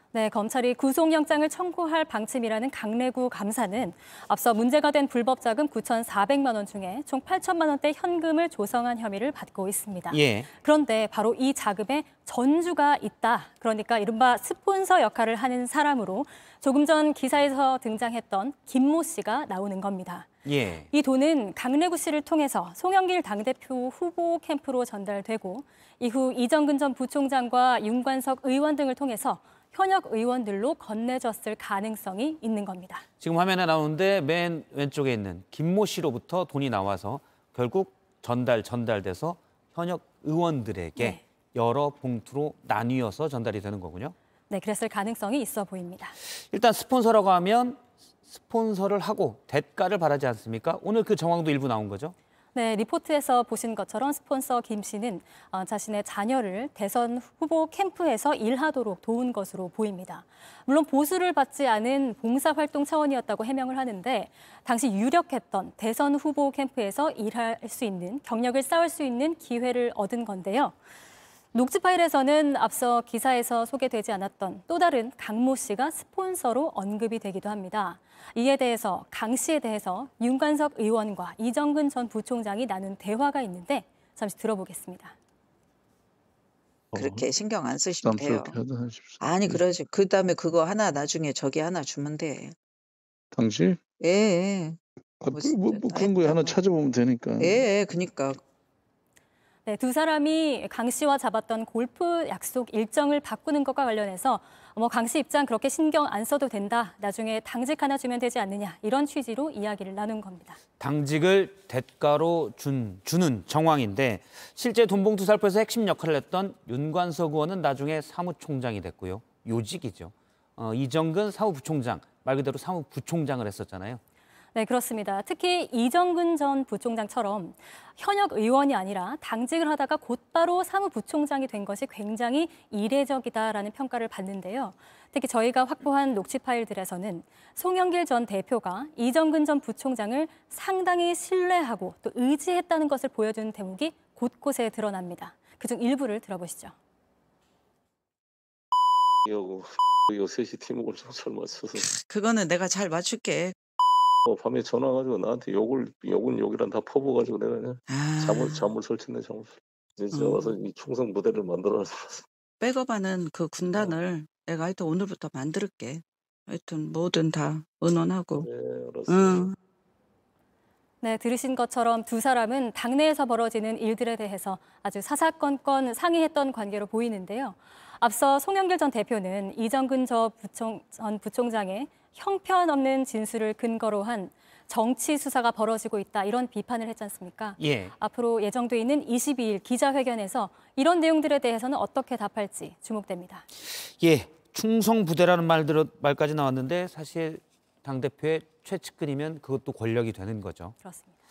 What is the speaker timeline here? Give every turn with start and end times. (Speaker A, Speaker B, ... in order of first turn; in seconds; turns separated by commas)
Speaker A: 0.1-20.3, Speaker B: 10.1-10.5, Speaker B: 20.4-20.9, Speaker A: 20.9-33.0, Speaker B: 33.2-44.1, Speaker A: 44.5-46.1, Speaker B: 46.5-52.1, Speaker A: 52.5-70.8, Speaker A: 71.5-85.2, Speaker C: 86.9-87.3, Speaker D: 86.9-88.6, Speaker C: 88.0-89.6, Speaker D: 89.2-92.6, Speaker C: 93.3-93.8, Speaker D: 94.0-96.6, Speaker C: 95.2-97.7, Speaker D: 97.4-98.4, Speaker A: 99.7-110.6, Speaker B: 110.8-124.0, Speaker A: 124.5-146.8, Speaker E: 149.2-151.9, Speaker D: 151.8-153.6, Speaker E: 154.2-162.2, Speaker D: 157.9-158.7, Speaker D: 160.1-160.5, Speaker D: 162.6-168.5, Speaker E: 168.4-169.5, Speaker D: 169.1-169.6, Speaker A: 171.0-193.5, Speaker B: 187.6-187.9, Speaker B: 194.0-200.8, Speaker A: 200.8-201.1